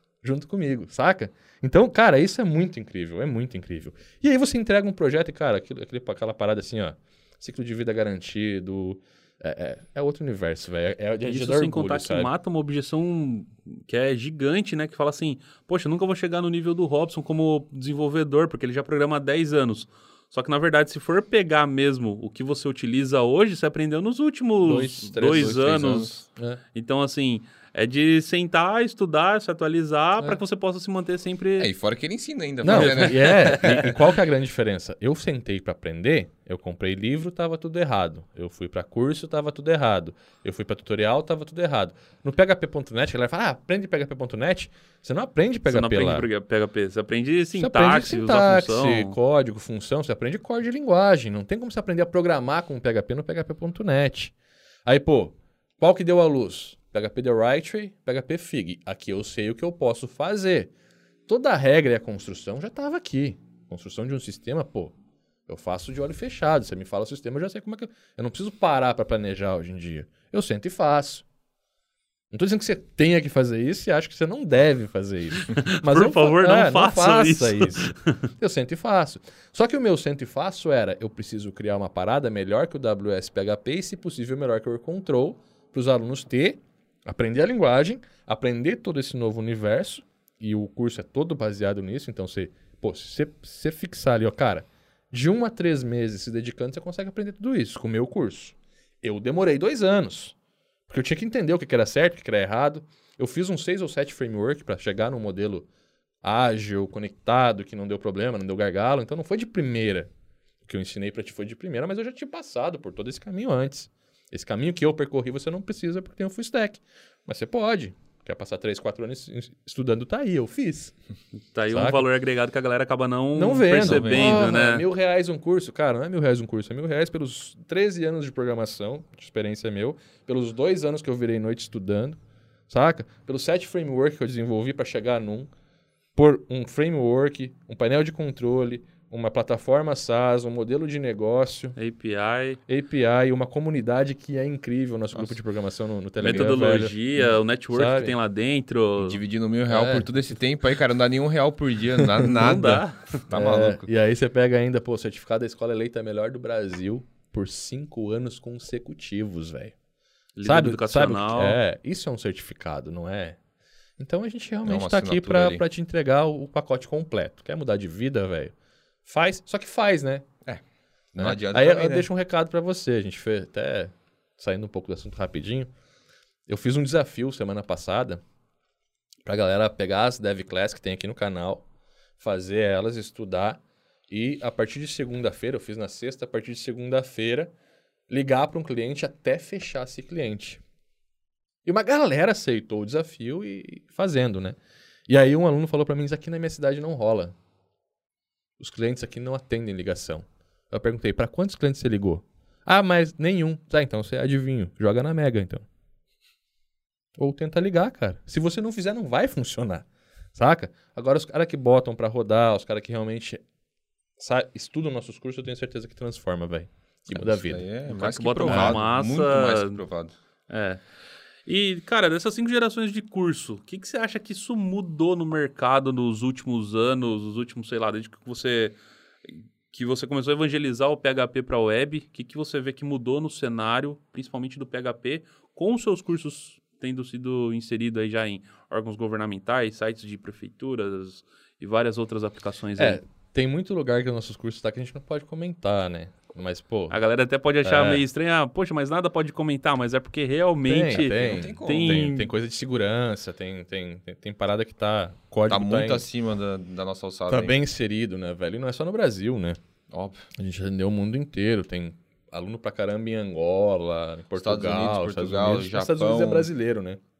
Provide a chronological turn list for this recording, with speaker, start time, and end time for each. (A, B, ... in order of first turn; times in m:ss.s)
0:00.2-0:12.3 A
0:11.2-0:31.7 B
0:24.6-0:26.6 A
0:31.6-0:33.9 C
0:32.6-0:46.3 A
0:32.7-0:33.8 B
0:45.7-0:49.2 B
0:47.6-0:54.3 A
0:54.8-1:00.7 A
1:01.3-1:04.9 A
1:05.5-1:11.2 A
1:12.3-1:40.4 A
1:15.5-1:18.0 B
1:40.9-1:45.7 A
1:46.2-1:50.1 A
1:50.6-2:00.9 A
2:01.5-2:04.8 B
2:01.7-2:02.0 A
2:03.3-2:12.2 A
2:03.8-2:04.5 C
2:12.7-2:15.5 A
2:16.2-2:21.7 A
2:21.8-2:22.6 B
2:22.7-2:28.1 A
2:26.2-2:29.2 B
2:26.2-2:26.5 C
2:29.0-2:33.8 C
2:29.7-2:30.0 A
2:32.0-2:39.7 A
2:32.2-2:33.2 B
2:40.4-2:41.6 B
2:40.4-2:43.4 A
2:44.0-2:48.5 A
2:44.6-2:45.6 C
2:49.0-2:50.2 A
2:51.1-2:52.1 C
2:51.2-2:55.7 A
2:56.5-2:58.2 A
2:59.2-3:01.6 A
3:02.2-3:07.5 A
3:08.1-3:10.6 A
3:11.6-3:14.6 A
3:15.1-3:17.3 A
3:18.6-3:25.7 A
3:27.2-3:33.4 A
3:34.2-3:37.7 A
3:37.1-3:40.1 C
3:37.9-3:39.8 B
3:38.4-3:38.8 A
3:40.5-3:40.8 B
3:41.4-4:03.0 B
4:02.8-4:07.0 A
4:06.9-4:12.3 B
4:07.6-4:08.0 A
4:10.6-4:16.0 A
4:10.9-4:12.1 C
4:15.5-4:17.6 C
4:17.3-4:19.6 A
4:19.9-4:20.2 C
4:20.3-4:27.0 A
4:24.4-4:26.5 C